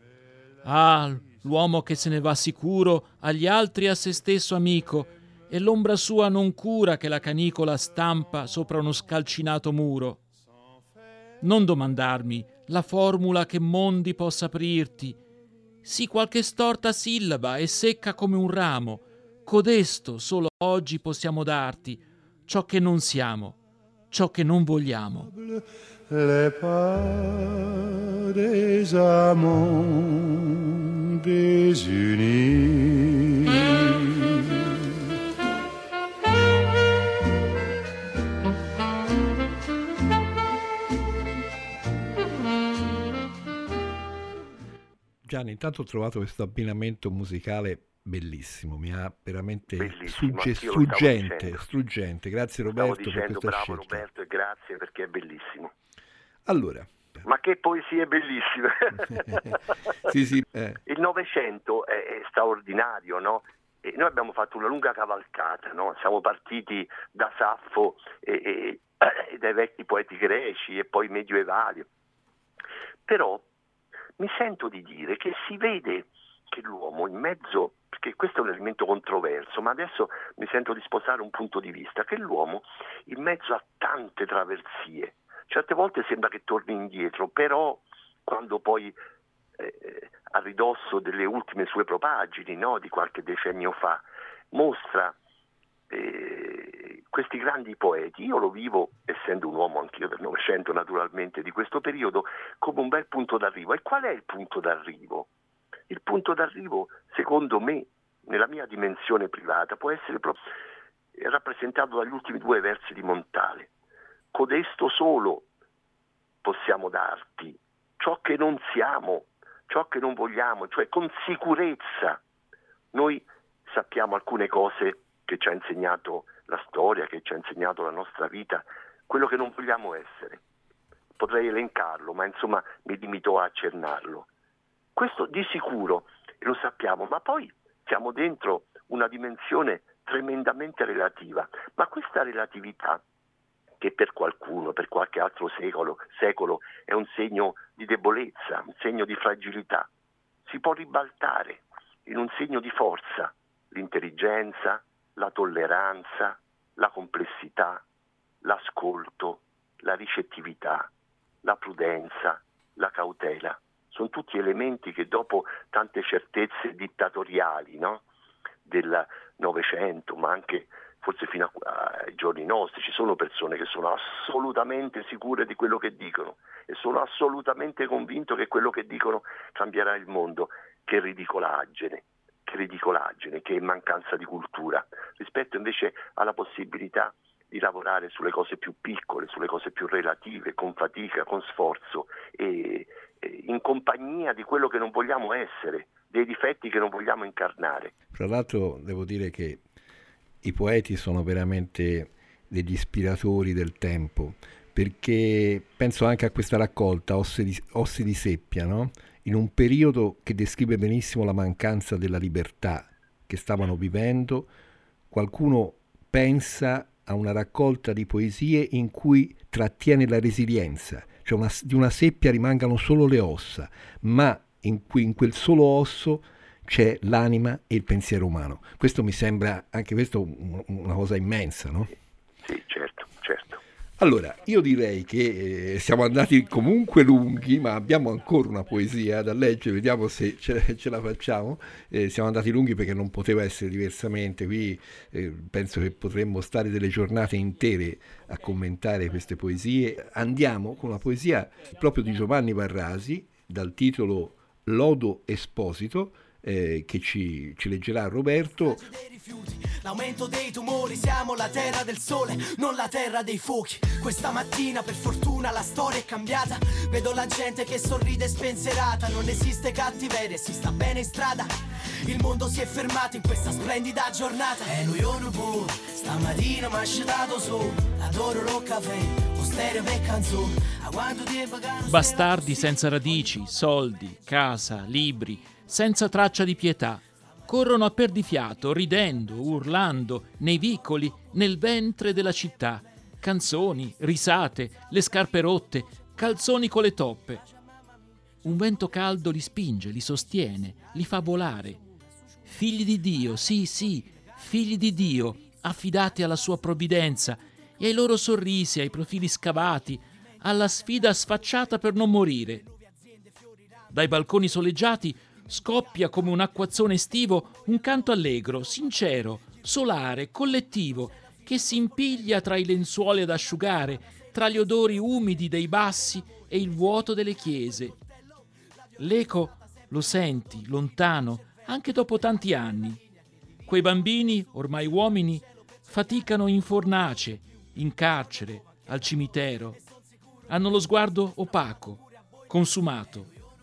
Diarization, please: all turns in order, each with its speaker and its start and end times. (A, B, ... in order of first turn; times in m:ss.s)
0:00.6-0:10.2 A
0:11.4-0:15.2 A
0:15.8-0:23.6 A
0:24.1-0:25.3 A
0:25.2-0:34.6 B
0:45.2-0:54.0 C
0:49.8-0:51.6 D
0:52.7-0:55.7 D
0:56.5-0:57.2 C
0:57.2-0:59.6 D
1:00.0-1:00.8 C
1:00.9-1:11.9 D
1:13.1-1:13.5 D
1:14.2-1:29.0 D
1:29.6-1:35.2 D
1:35.9-1:45.3 D
1:45.9-1:50.4 D
1:51.2-1:53.7 D
1:54.3-1:55.5 D
1:56.4-2:02.2 D
2:02.9-2:10.4 D
2:11.2-2:14.3 D
2:15.0-2:23.0 D
2:23.8-2:29.9 D
2:30.5-2:37.8 D
2:38.4-2:40.9 D
2:41.4-2:48.0 D
2:48.7-3:17.9 D
3:18.1-3:19.6 C
3:20.4-3:34.5 C
3:35.1-3:51.9 C
3:52.4-3:53.6 D
3:54.0-4:18.9 C
4:18.6-4:43.2 E
4:41.9-4:57.4 A
4:58.4-5:01.8 A
5:02.5-5:12.7 A
5:13.9-5:28.0 A
5:29.0-5:33.0 A
5:33.7-5:39.8 A
5:40.5-5:43.3 A